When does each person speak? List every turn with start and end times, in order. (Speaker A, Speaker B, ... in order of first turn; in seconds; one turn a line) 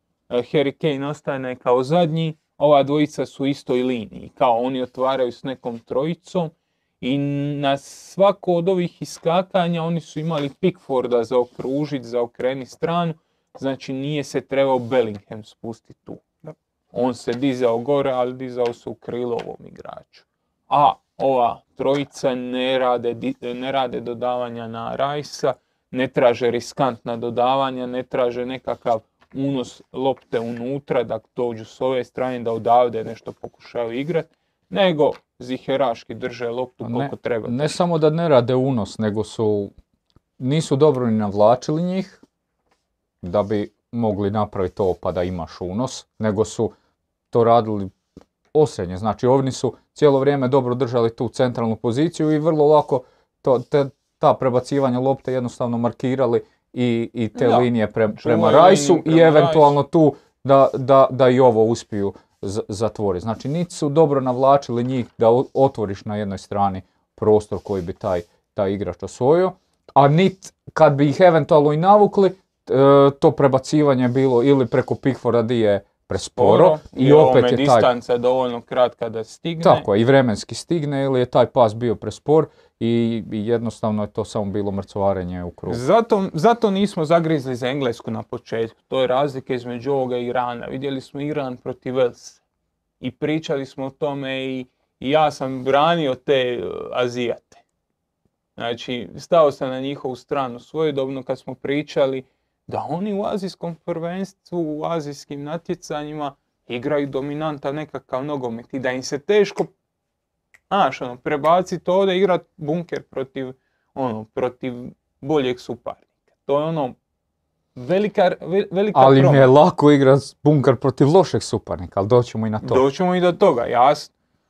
Speaker A: 0.3-16.2
Speaker A: 16.9-37.8
Speaker B: 36.8-39.7
Speaker B: 40.4-42.2
Speaker B: 43.2-46.7
Speaker B: 47.3-47.9
Speaker B: 48.5-77.9
Speaker A: 57.3-59.8
Speaker A: 76.2-79.8
Speaker B: 79.6-85.8
Speaker A: 85.7-92.4
Speaker A: 93.0-97.6
Speaker A: 98.6-109.7
Speaker A: 110.7-117.0
Speaker A: 117.8-119.5
Speaker B: 118.9-122.8
Speaker A: 122.6-124.1